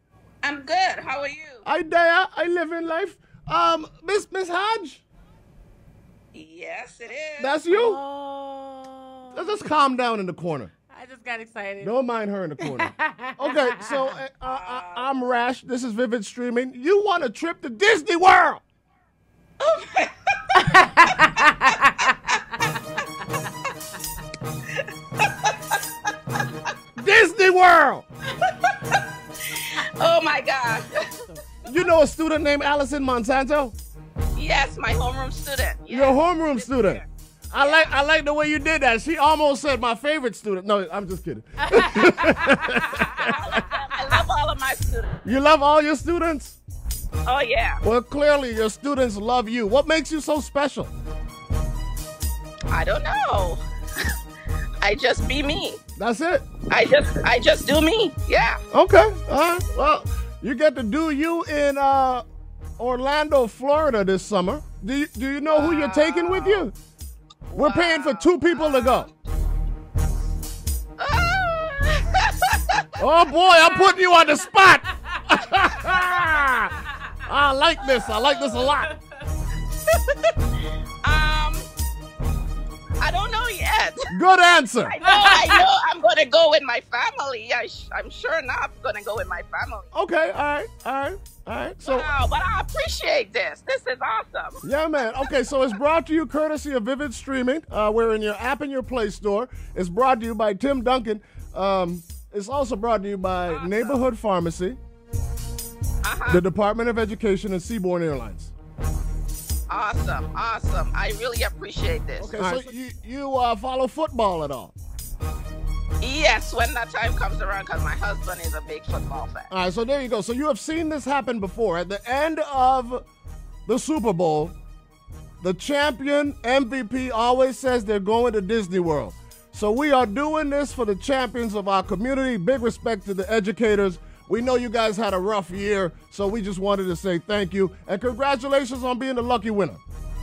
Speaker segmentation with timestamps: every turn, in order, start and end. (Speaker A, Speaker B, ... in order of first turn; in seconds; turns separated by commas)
Speaker A: 0.4-1.6, Speaker B: 1.6-5.0, Speaker A: 6.3-7.5, Speaker B: 7.4-8.0, Speaker C: 7.6-9.7, Speaker B: 9.3-10.7, Speaker C: 10.8-11.9, Speaker B: 11.8-18.6, Speaker C: 12.6-14.2, Speaker A: 14.4-15.3, Speaker A: 19.6-20.6, Speaker C: 20.6-22.3, Speaker A: 25.2-25.8, Speaker B: 26.9-28.0, Speaker A: 28.4-29.0, Speaker A: 29.5-30.9, Speaker B: 31.6-33.7, Speaker A: 34.3-37.1, Speaker B: 35.9-43.6, Speaker A: 37.6-37.9, Speaker C: 41.8-43.2, Speaker A: 43.2-45.2, Speaker B: 45.2-46.6, Speaker A: 47.2-47.8, Speaker B: 47.8-50.9, Speaker A: 52.7-54.1, Speaker A: 54.8-55.8, Speaker B: 56.0-56.5, Speaker A: 56.7-58.6, Speaker B: 58.7-62.2, Speaker B: 62.8-66.7, Speaker A: 65.5-66.6, Speaker A: 67.5-69.0, Speaker B: 67.5-69.1, Speaker A: 71.0-73.0, Speaker B: 73.0-76.7, Speaker C: 74.0-77.1, Speaker B: 77.2-78.9, Speaker C: 78.2-79.0, Speaker A: 81.0-81.7, Speaker A: 83.0-84.1, Speaker B: 84.1-84.9, Speaker A: 84.9-89.9, Speaker C: 85.1-85.6, Speaker B: 89.9-92.1, Speaker A: 91.8-94.6, Speaker B: 94.6-104.8, Speaker A: 103.5-104.0, Speaker A: 106.0-106.4, Speaker B: 106.3-108.5, Speaker A: 109.7-112.4, Speaker B: 112.2-114.7, Speaker A: 116.0-119.5, Speaker B: 119.5-123.0, Speaker B: 123.7-124.5, Speaker B: 125.4-139.8